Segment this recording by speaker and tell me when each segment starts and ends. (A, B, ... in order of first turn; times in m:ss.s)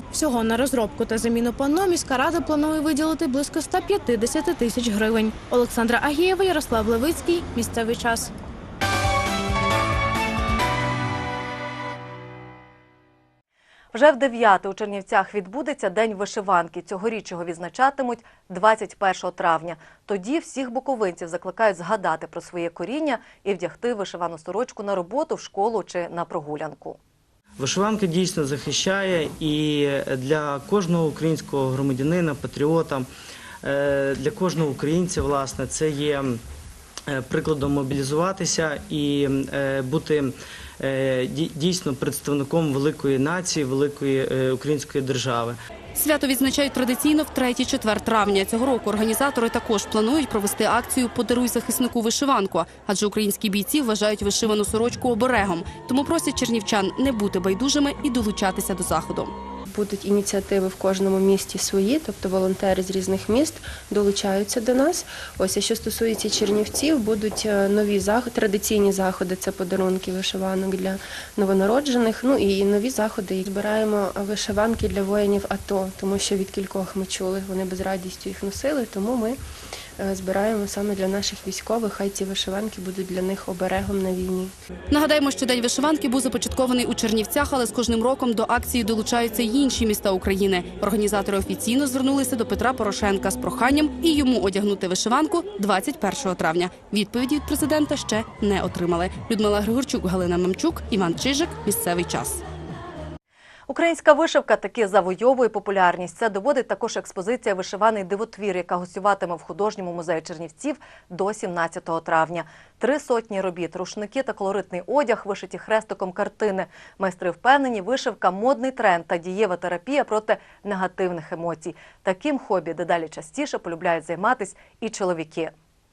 0:00.1-0:08.3 A
0:13.9-0:27.0 B
0:27.6-0:33.1 C
0:33.6-0:36.4 C
0:37.1-0:45.6 C
0:45.9-0:59.3 D
0:59.7-1:19.4 E
1:20.0-1:24.5 E
1:24.9-1:42.4 D
1:43.7-2:05.5 B